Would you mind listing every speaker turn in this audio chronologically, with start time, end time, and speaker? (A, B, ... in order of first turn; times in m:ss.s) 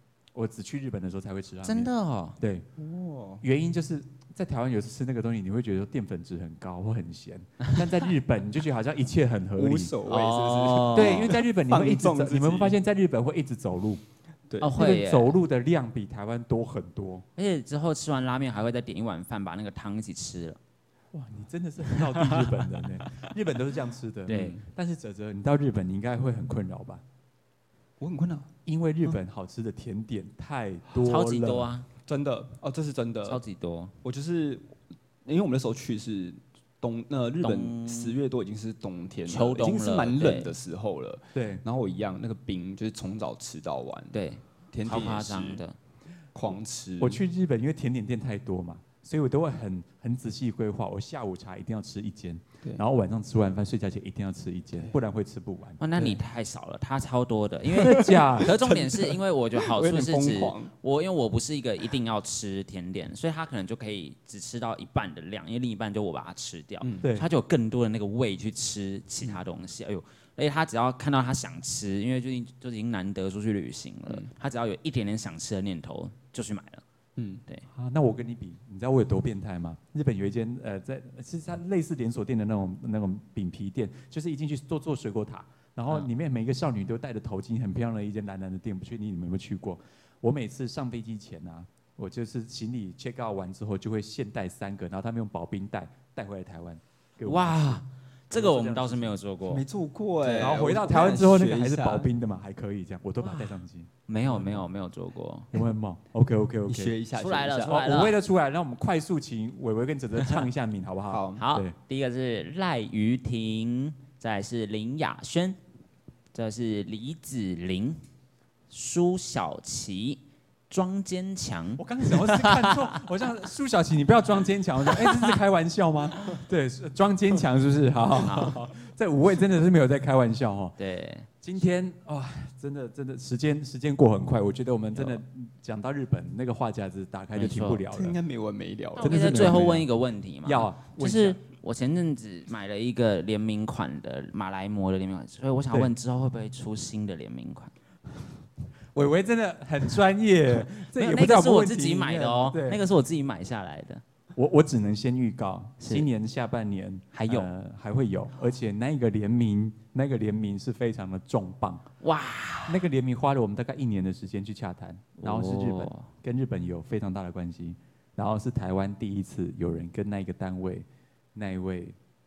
0:00.3-0:02.7 A
0:01.6-0:02.4 B
0:02.8-0:03.4 C
0:03.4-0:09.9 A
0:09.6-0:12.8 C
0:10.1-0:11.4 B
0:10.9-0:14.0 A
0:14.5-0:14.8 C
0:14.6-0:15.3 B
0:14.8-0:17.2 A
0:17.4-0:20.6 B
0:21.1-0:27.0 A
0:24.3-0:24.6 B
0:24.3-0:24.6 C
0:28.0-0:28.5 C
0:28.7-0:31.7 A
0:31.0-0:31.9 B
0:32.1-0:33.4 C
0:33.3-0:33.9 B
0:34.0-0:44.2 C
0:37.4-0:38.2 B
0:39.3-0:40.5 B
0:41.4-0:41.6 A
0:44.1-0:45.8 B
0:44.7-0:45.6 C
0:46.3-0:47.2 C
0:47.0-0:56.2 A
0:55.8-1:16.8 B
0:57.8-1:00.7 C
0:57.8-0:58.8 A
1:14.1-1:14.3 C
1:17.2-1:17.4 C
1:17.7-1:39.2 A
1:37.2-1:39.6 B
1:39.5-1:42.1 C
1:40.3-1:40.6 B
1:40.4-1:44.7 A
1:43.2-1:45.5 B
1:45.5-1:47.0 A
1:46.7-1:47.9 C
1:47.1-1:48.2 B
1:47.6-1:51.7 A
1:51.1-1:51.5 C
1:51.4-1:55.6 B
1:56.3-1:58.0 B
1:58.7-2:02.9 B
2:01.8-2:10.8 A
2:05.0-2:05.3 B
2:08.2-2:08.6 B
2:10.8-2:11.3 B
2:11.4-2:18.2 A
2:14.9-2:15.2 B
2:17.4-2:17.8 B
2:17.9-2:19.7 C
2:19.0-2:27.7 B
2:19.0-2:19.9 A
2:20.4-2:21.4 A
2:29.0-2:32.8 A
2:30.8-2:34.0 B
2:34.4-2:41.9 A
2:35.8-2:36.1 B
2:37.1-2:37.5 B
2:42.0-2:42.8 B
2:42.7-2:52.0 A
2:45.2-2:46.1 B